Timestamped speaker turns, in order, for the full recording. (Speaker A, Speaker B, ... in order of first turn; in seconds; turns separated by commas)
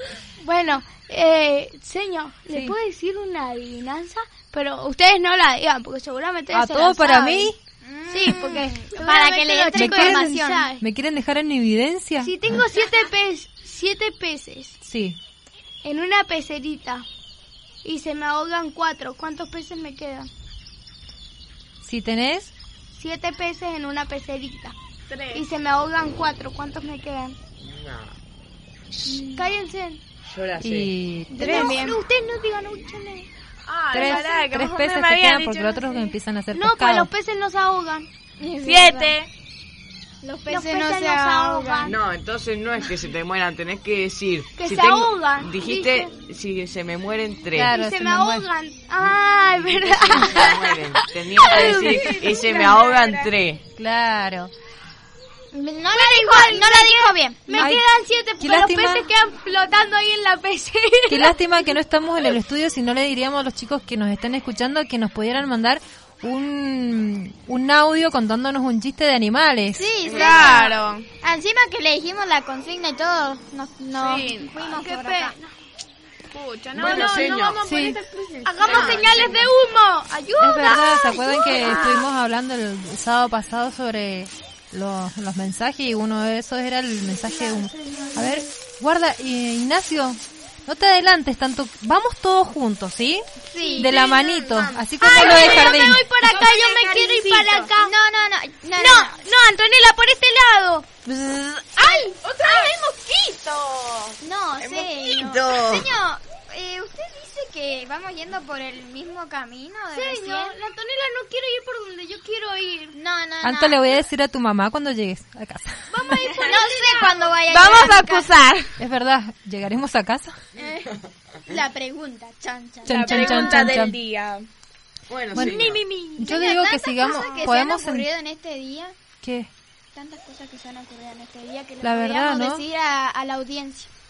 Speaker A: 0.4-7.5, Speaker B: 2.5-2.8, Speaker B: 6.5-7.6, Speaker C: 7.8-10.7, Speaker A: 8.1-10.8, Speaker B: 9.8-12.6, Speaker A: 12.2-14.8, Speaker B: 14.8-15.2, Speaker A: 15.8-17.1, Speaker A: 17.8-20.3, Speaker B: 21.8-22.5, Speaker A: 22.9-24.8, Speaker D: 25.1-25.4, Speaker A: 25.3-27.4, Speaker E: 27.6-28.2, Speaker A: 29.1-30.0, Speaker E: 30.2-30.9, Speaker B: 30.6-31.8, Speaker A: 31.3-33.3, Speaker C: 31.4-32.0, Speaker D: 33.7-36.1, Speaker B: 33.9-37.1, Speaker A: 34.0-34.2, Speaker A: 36.5-38.1, Speaker C: 38.4-39.1, Speaker D: 38.6-39.3, Speaker C: 40.2-41.9, Speaker A: 40.2-42.0, Speaker E: 41.8-47.8, Speaker A: 44.5-46.1, Speaker B: 47.5-48.5, Speaker A: 47.7-52.1, Speaker E: 49.0-53.6, Speaker D: 51.4-53.3, Speaker B: 53.8-54.5, Speaker C: 55.5-57.6, Speaker A: 55.9-61.4, Speaker B: 57.6-57.9, Speaker B: 58.4-59.1, Speaker B: 61.1-69.9, Speaker C: 69.7-75.4, Speaker E: 70.1-70.5, Speaker D: 70.1-71.1, Speaker D: 74.0-74.5, Speaker A: 74.6-75.5, Speaker D: 76.3-79.5, Speaker E: 76.7-77.6, Speaker B: 77.6-78.0, Speaker A: 78.4-82.0, Speaker E: 78.6-79.4, Speaker B: 80.4-93.3, Speaker D: 81.5-82.0, Speaker A: 87.2-88.2, Speaker C: 93.5-94.0, Speaker B: 93.8-96.0, Speaker D: 93.9-95.7, Speaker A: 95.0-97.9, Speaker C: 95.2-97.0, Speaker D: 96.9-97.7, Speaker C: 97.8-99.2, Speaker A: 98.8-101.0, Speaker E: 101.1-101.5, Speaker A: 101.8-102.7, Speaker C: 101.9-102.6, Speaker D: 102.2-104.2, Speaker C: 104.2-110.5, Speaker E: 104.6-105.9, Speaker A: 109.9-113.0, Speaker C: 112.9-114.0, Speaker B: 113.4-115.9, Speaker A: 115.9-117.9, Speaker C: 116.4-118.3, Speaker D: 117.5-118.7, Speaker B: 118.8-120.4, Speaker C: 120.6-120.9, Speaker C: 121.5-123.7, Speaker B: 122.9-124.0, Speaker D: 122.9-124.5, Speaker E: 125.1-125.8, Speaker B: 125.3-128.1, Speaker A: 125.7-126.2, Speaker C: 126.2-128.9, Speaker B: 129.2-129.5, Speaker C: 129.9-133.9, Speaker B: 131.8-132.6